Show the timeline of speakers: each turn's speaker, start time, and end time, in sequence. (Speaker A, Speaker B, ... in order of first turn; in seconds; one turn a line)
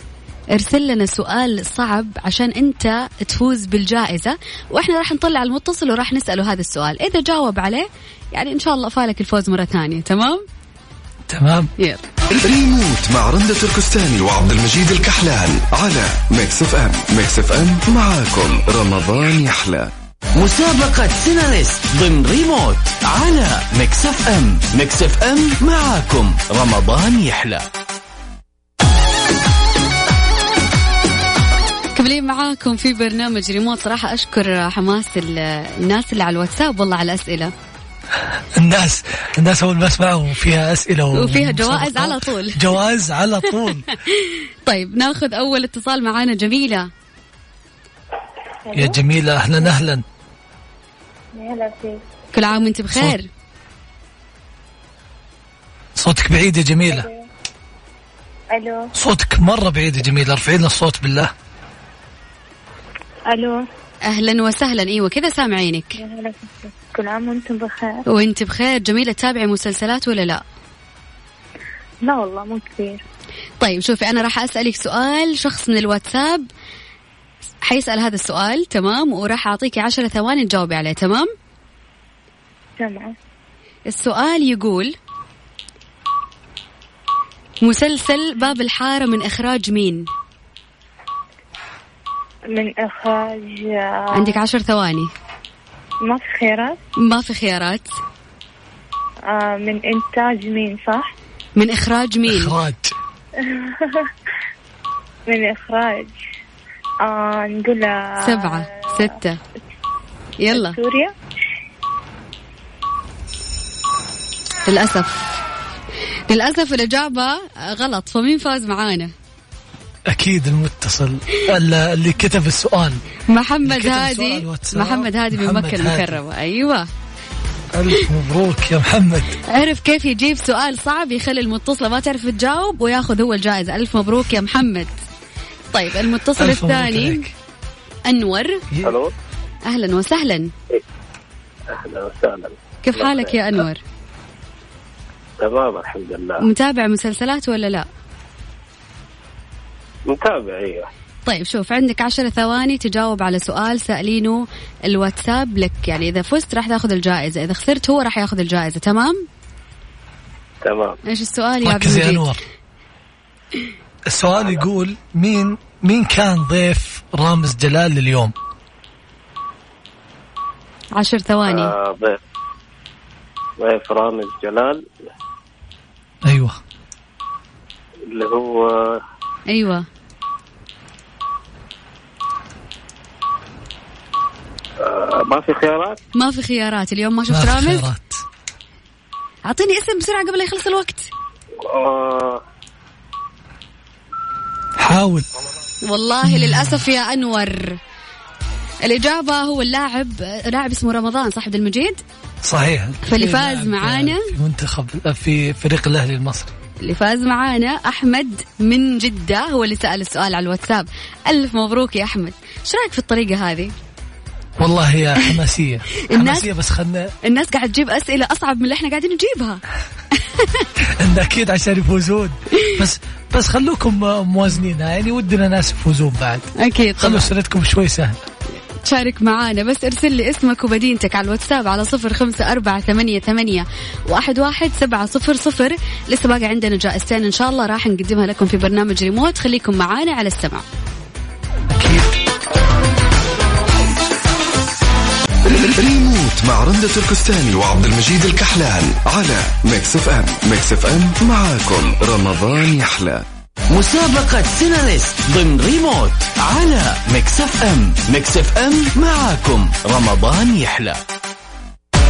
Speaker A: 0.5-10.4
Speaker B: 11.3-11.7
Speaker C: 12.3-19.9
Speaker D: 20.4-27.6
Speaker A: 31.9-37.5
Speaker B: 38.6-43.9
Speaker A: 41.1-42.7
Speaker A: 44.1-46.9
Speaker E: 48.6-48.9
Speaker B: 48.7-50.0
Speaker E: 51.3-52.0
Speaker A: 52.3-53.3
Speaker B: 56.0-57.1
Speaker E: 56.9-57.2
Speaker E: 58.5-58.9
Speaker B: 58.9-61.3
Speaker E: 63.2-63.7
Speaker A: 64.1-66.0
Speaker E: 65.9-68.0
Speaker A: 68.1-70.4
Speaker E: 72.0-73.0
Speaker A: 73.6-76.5
Speaker A: 77.6-81.3
Speaker E: 82.8-83.2
Speaker A: 83.9-84.9
Speaker A: 87.6-90.1
Speaker E: 92.5-94.4
Speaker A: 94.1-95.1
Speaker E: 96.0-96.8
Speaker A: 97.0-97.9
Speaker E: 99.2-101.1
Speaker A: 101.5-102.5
Speaker B: 102.3-102.9
Speaker E: 103.4-104.0
Speaker E: 105.3-106.1
Speaker E: 107.0-108.9
Speaker A: 108.2-109.4
Speaker A: 110.4-110.8
Speaker E: 110.5-111.1
Speaker A: 114.7-115.3
Speaker A: 116.3-119.1
Speaker B: 120.1-123.0
Speaker A: 123.3-126.9
Speaker B: 123.6-126.2
Speaker B: 127.7-129.3
Speaker A: 129.5-134.9
Speaker A: 135.7-137.2
Speaker B: 136.4-137.3
Speaker A: 138.0-138.6
Speaker F: 138.8-139.1
Speaker A: 139.6-140.5
Speaker F: 141.7-143.4
Speaker A: 142.8-143.8
Speaker F: 145.4-146.5
Speaker A: 146.4-147.9
Speaker F: 150.1-150.9
Speaker A: 151.2-159.2
Speaker F: 160.6-161.0
Speaker A: 161.1-162.3
Speaker B: 161.6-162.4
Speaker B: 164.1-168.3
Speaker F: 164.3-164.6
Speaker A: 170.9-171.7
Speaker F: 171.5-172.2
Speaker F: 173.6-174.9
Speaker B: 176.2-176.6
Speaker F: 178.1-179.0
Speaker A: 179.5-179.8
Speaker F: 184.8-186.0
Speaker A: 186.1-187.8
Speaker B: 187.3-188.2
Speaker A: 189.4-191.1
Speaker F: 191.6-192.4
Speaker B: 194.8-195.2
Speaker A: 195.8-197.8
Speaker B: 196.2-196.8
Speaker A: 198.8-202.0
Speaker B: 202.4-206.5
Speaker A: 203.0-204.3
Speaker A: 206.8-213.7
Speaker B: 214.6-217.1
Speaker A: 216.1-216.5
Speaker A: 217.2-219.6
Speaker A: 220.1-220.7
Speaker B: 220.8-228.2
Speaker A: 226.6-227.3
Speaker A: 228.8-240.6
Speaker B: 241.8-242.1
Speaker C: 245.4-253.2
Speaker D: 253.7-261.0